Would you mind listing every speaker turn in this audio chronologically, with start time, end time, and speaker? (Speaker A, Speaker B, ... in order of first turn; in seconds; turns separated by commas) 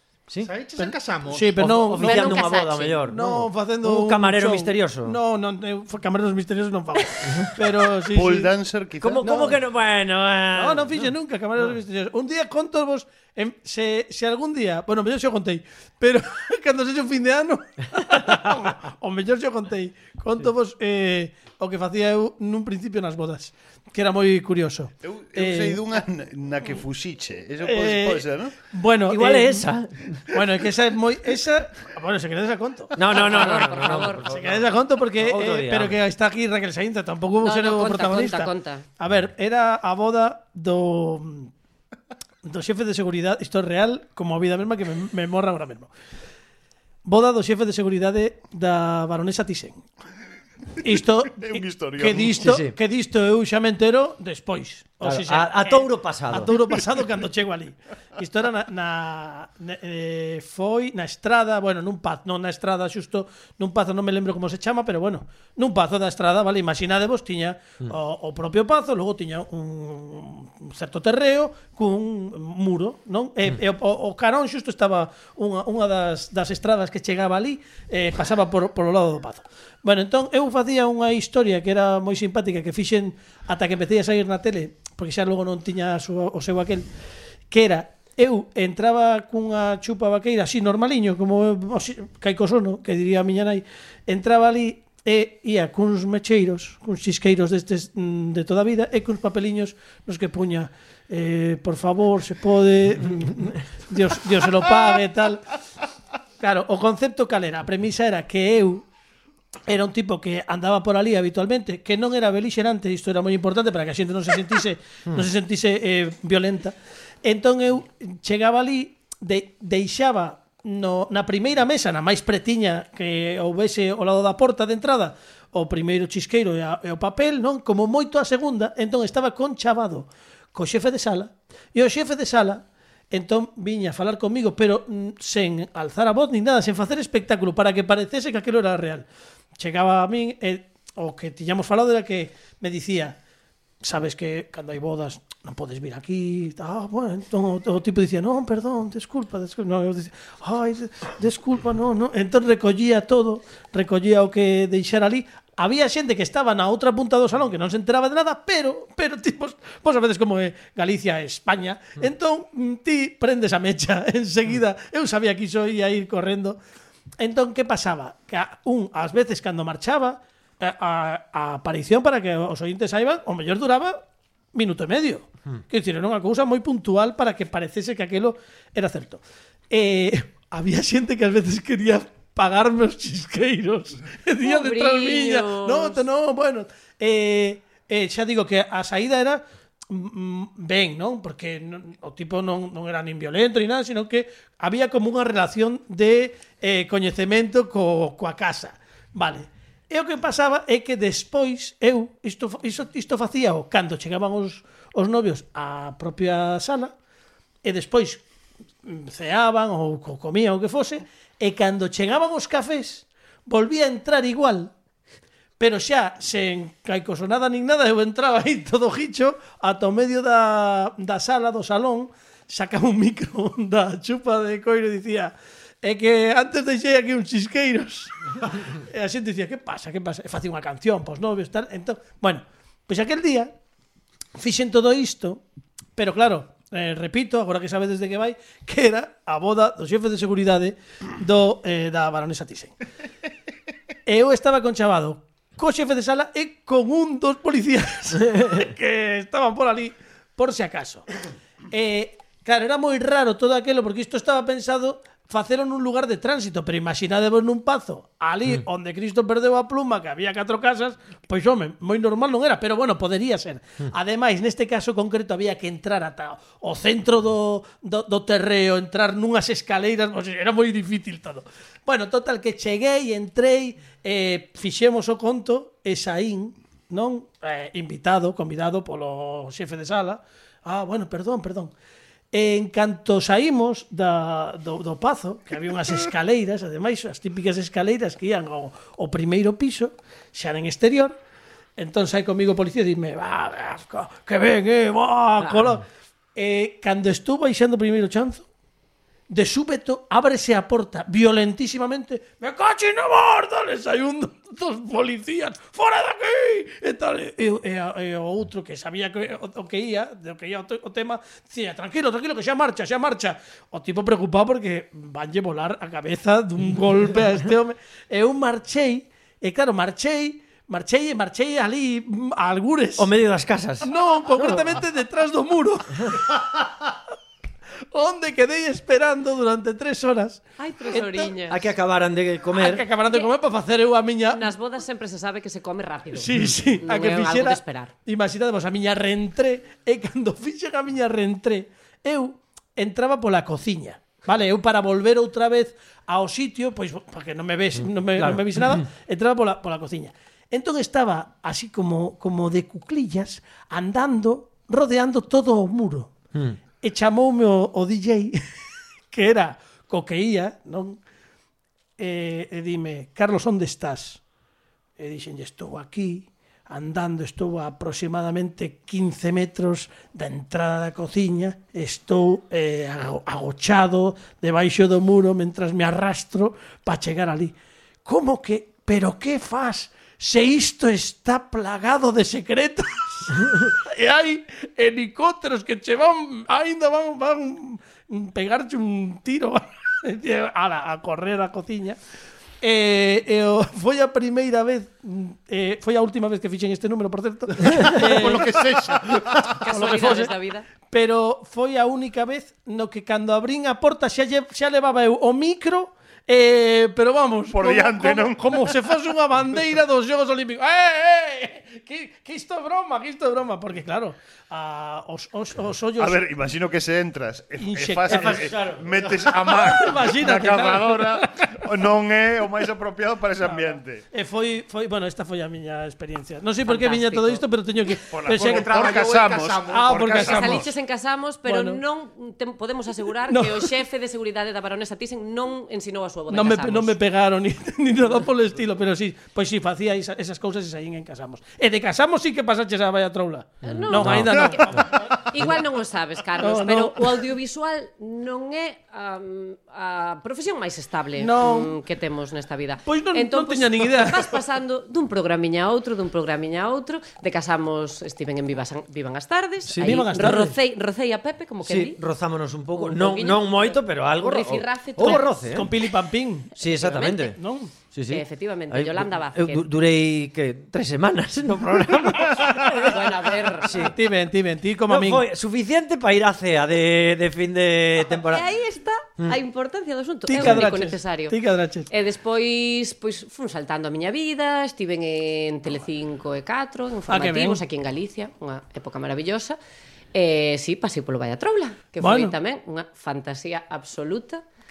Speaker A: 0.4-1.6, Speaker B: 0.8-2.4, Speaker C: 1.6-5.2, Speaker D: 2.0-3.0, Speaker B: 3.1-8.5, Speaker E: 8.1-9.3, Speaker C: 9.0-11.1, Speaker B: 9.2-9.6, Speaker B: 10.5-25.8, Speaker E: 25.0-28.6, Speaker B: 27.6-29.7, Speaker C: 29.1-30.2, Speaker B: 30.3-33.0, Speaker C: 33.0-36.0, Speaker D: 33.1-34.3, Speaker B: 34.2-41.5, Speaker D: 37.4-38.9, Speaker B: 42.4-45.9, Speaker B: 47.0-49.8, Speaker B: 50.8-86.9, Speaker E: 51.4-52.5, Speaker C: 52.4-52.7, Speaker C: 55.0-56.5, Speaker B: 87.5-105.5, Speaker B: 106.4-108.8, Speaker B: 109.7-139.1, Speaker B: 139.6-143.2, Speaker B: 143.8-166.6, Speaker B: 167.2-174.0, Speaker B: 174.5-206.9, Speaker D: 184.4-186.0, Speaker B: 207.6-208.2, Speaker B: 208.8-214.7, Speaker B: 215.6-233.5, Speaker B: 234.4-235.4, Speaker B: 236.0-242.7, Speaker B: 244.1-251.1, Speaker B: 251.7-281.7, Speaker B: 282.3-291.1, Speaker B: 291.8-295.8, Speaker B: 296.4-298.5, Speaker B: 299.3-323.1, Speaker C: 323.0-324.7, Speaker B: 323.8-326.4, Speaker B: 327.9-331.3, Speaker D: 330.6-331.6, Speaker C: 331.5-332.9, Speaker B: 332.5-334.5, Speaker D: 334.3-337.9, Speaker B: 336.1-356.1, Speaker C: 347.8-348.9, Speaker B: 356.8-358.4, Speaker B: 359.1-361.0, Speaker B: 362.0-364.2, Speaker B: 365.0-377.5, Speaker B: 378.1-392.0, Speaker B: 392.6-400.3, Speaker A: 397.7-399.2, Speaker E: 398.3-399.0, Speaker D: 399.5-400.7, Speaker B: 400.9-416.2, Speaker E: 407.5-408.8, Speaker E: 416.0-424.0, Speaker B: 417.6-418.5, Speaker C: 418.1-418.9, Speaker B: 419.4-421.6, Speaker B: 423.5-428.8, Speaker D: 426.6-427.4, Speaker E: 428.1-430.6, Speaker A: 428.2-430.7, Speaker B: 429.7-430.7, Speaker D: 430.1-437.0, Speaker B: 431.5-431.8, Speaker B: 433.3-433.7, Speaker B: 436.3-445.5, Speaker C: 443.6-444.4, Speaker D: 443.6-462.0, Speaker B: 446.4-447.2, Speaker B: 451.2-451.8, Speaker B: 452.9-454.4, Speaker C: 459.7-460.3, Speaker B: 459.8-460.6, Speaker C: 461.6-465.7, Speaker D: 462.8-465.4, Speaker B: 465.1-466.5, Speaker C: 466.6-467.4, Speaker D: 466.6-467.4, Speaker B: 467.1-467.7, Speaker C: 467.9-474.0, Speaker D: 468.1-469.6, Speaker D: 472.8-473.8, Speaker B: 473.8-475.3, Speaker C: 474.9-478.5, Speaker D: 478.1-481.4, Speaker B: 480.3-481.9, Speaker C: 480.4-480.7, Speaker D: 481.9-489.6, Speaker B: 487.1-487.6, Speaker D: 490.1-494.4, Speaker B: 492.0-492.4